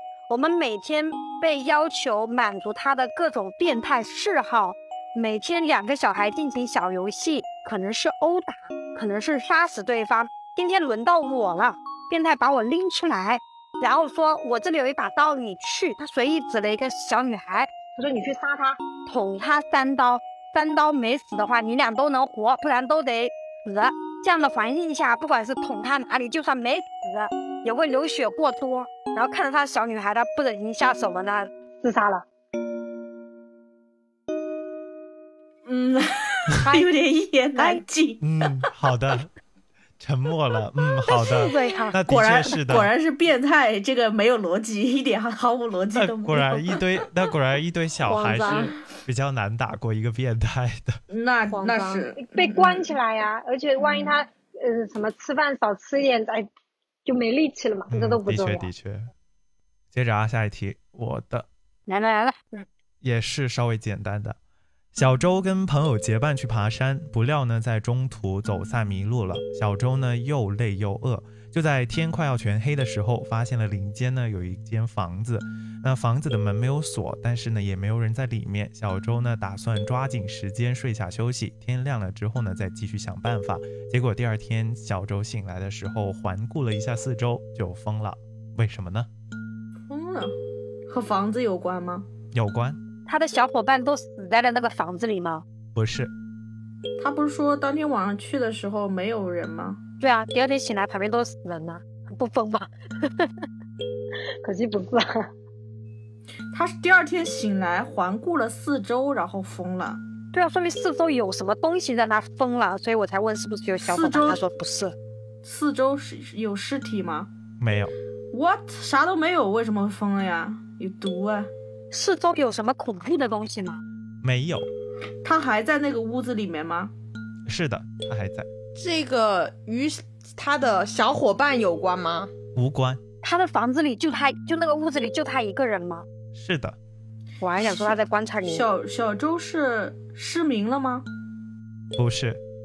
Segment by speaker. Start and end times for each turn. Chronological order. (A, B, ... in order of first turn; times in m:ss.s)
0:00.3-0:17.7 A
0:18.0-0:18.8 B
0:19.1-0:31.5 A
0:31.8-0:32.2 B
0:35.6-0:38.7 C
0:36.6-0:36.9 A
0:37.5-0:37.8 A
0:38.2-0:39.3 D
0:40.0-0:42.9 D
0:41.1-0:42.0 A
0:42.0-0:46.8 C
0:45.9-0:51.0 D
0:48.1-0:48.7 E
0:51.1-0:52.9 C
0:51.5-0:52.1 E
0:52.2-0:56.5 B
0:53.9-0:54.1 C
0:57.0-0:58.7 B
0:57.9-0:59.1 D
0:59.9-1:01.5 D
1:01.9-1:02.6 A
1:03.0-1:04.4 D
1:04.9-1:29.1 D
1:29.9-1:30.4 C
1:30.9-1:32.1 C
1:32.3-1:32.8 D
1:33.1-1:35.4 A
1:35.8-1:36.1 D
1:37.0-1:39.8 C
1:40.0-1:43.3 A
1:44.4-1:45.3 B
1:46.5-1:50.0 C
1:50.3-1:55.0 A
1:53.8-1:54.4 C
1:55.4-1:57.3 C
1:57.6-1:57.9 D
1:58.3-2:01.5 C
2:01.9-2:03.8 A
2:04.2-2:04.7 D
2:05.2-2:06.9 C
2:07.5-2:08.5 D
2:08.8-2:12.3 E
2:12.6-2:13.0 D
2:13.2-2:16.1 A
2:16.4-2:16.8 D
2:17.4-2:18.7 A
2:17.6-2:21.1 C
2:21.9-2:22.4 D